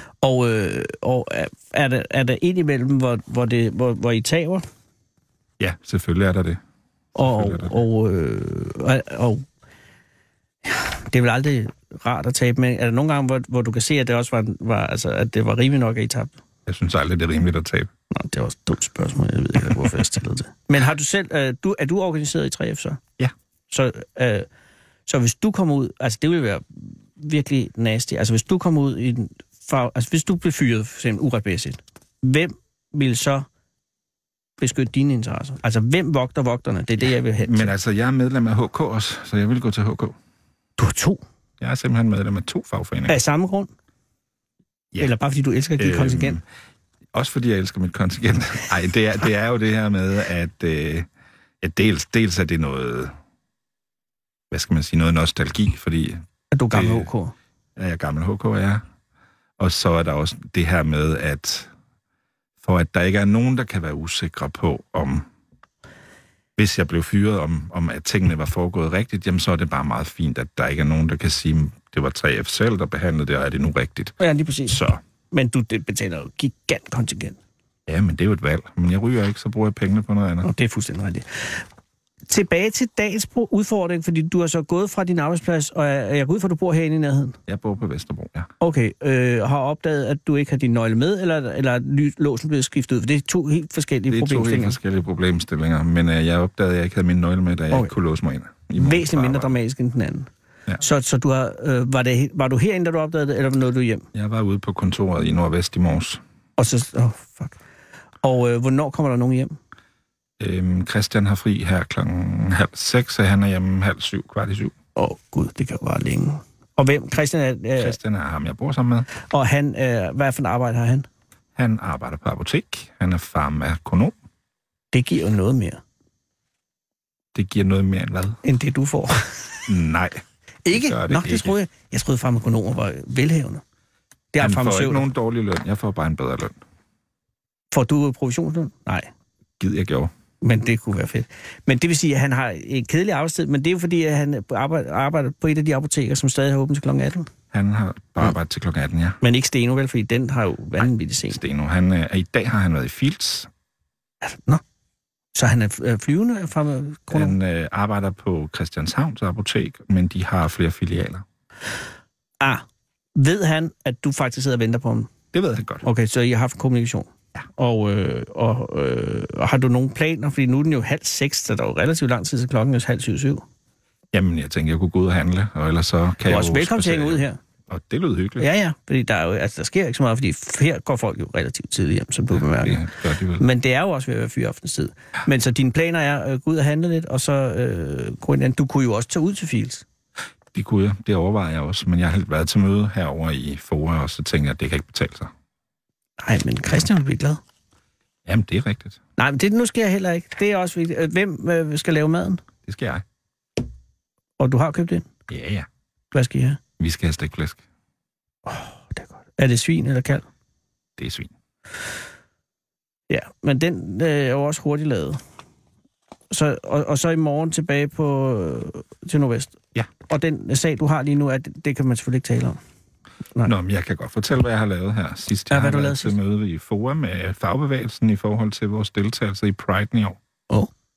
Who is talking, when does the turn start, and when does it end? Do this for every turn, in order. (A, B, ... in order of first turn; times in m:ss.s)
0:00.2-0:04.7 A
0:05.6-0:06.6 B
0:07.2-0:09.4 A
0:07.2-0:07.8 B
0:10.6-0:16.4 A
0:16.7-0:17.9 B
0:18.1-0:23.0 A
0:23.7-0:24.5 A
0:25.1-0:33.5 A
0:34.6-0:37.7 A
0:37.4-0:40.2 B
0:40.8-0:41.2 A
0:41.6-0:43.2 B
0:43.1-0:43.7 A
0:45.0-0:46.4 A
0:45.8-0:46.4 B
0:47.1-0:51.1 B
0:51.6-0:53.2 B
0:54.5-0:57.1 B
0:56.5-0:57.3 A
0:57.8-0:58.8 B
0:59.6-1:01.7 B
1:02.6-1:05.3 B
1:06.6-1:15.0 B
1:14.2-1:17.4 A
1:17.9-1:20.5 B
1:20.4-1:21.6 A
1:22.3-1:27.4 A
1:27.5-1:28.5 B
1:28.6-1:34.8 A
1:34.1-1:39.5 B
1:38.8-1:40.3 A
1:40.8-1:44.1 A
1:44.1-1:46.2 B
1:46.6-1:47.6 A
1:48.2-1:49.6 A
1:50.4-1:54.7 B
1:55.0-1:58.0 A
1:57.8-1:59.1 B
1:59.2-2:01.1 A
2:01.6-2:04.1 B
2:04.9-2:05.8 A
2:07.4-2:08.4 B
2:08.4-2:09.6 A
2:09.7-2:11.6 B
2:10.6-2:13.6 A
2:14.3-2:15.1 A
2:14.4-2:16.6 B
2:17.7-2:19.1 A
2:19.6-2:20.1 B
2:20.4-2:27.3 A
2:27.5-2:29.2 B
2:29.2-2:31.4 A
2:31.3-2:33.5 B
2:34.2-2:34.6 A
2:35.3-2:37.4 A
2:37.1-2:41.2 B
2:42.4-2:45.1 A
2:45.3-2:45.8 B
2:45.8-2:53.4 A
2:54.1-2:58.5 B
2:56.3-2:57.4 A
2:58.4-3:02.8 A
3:02.3-3:03.4 B
3:03.4-3:09.8 A
3:10.5-3:15.3 B
3:16.2-3:17.4 A
3:18.3-3:19.0 B
3:19.2-3:22.4 A
3:22.7-3:23.0 B
3:24.4-3:25.1 A
3:25.3-3:25.7 B
3:26.1-3:26.6 A
3:26.8-3:27.6 B
3:28.5-3:30.3 A
3:31.0-3:31.3 B
3:33.1-3:35.2 A
3:36.3-3:42.6 A
3:43.4-3:50.2 B
3:45.5-3:46.2 A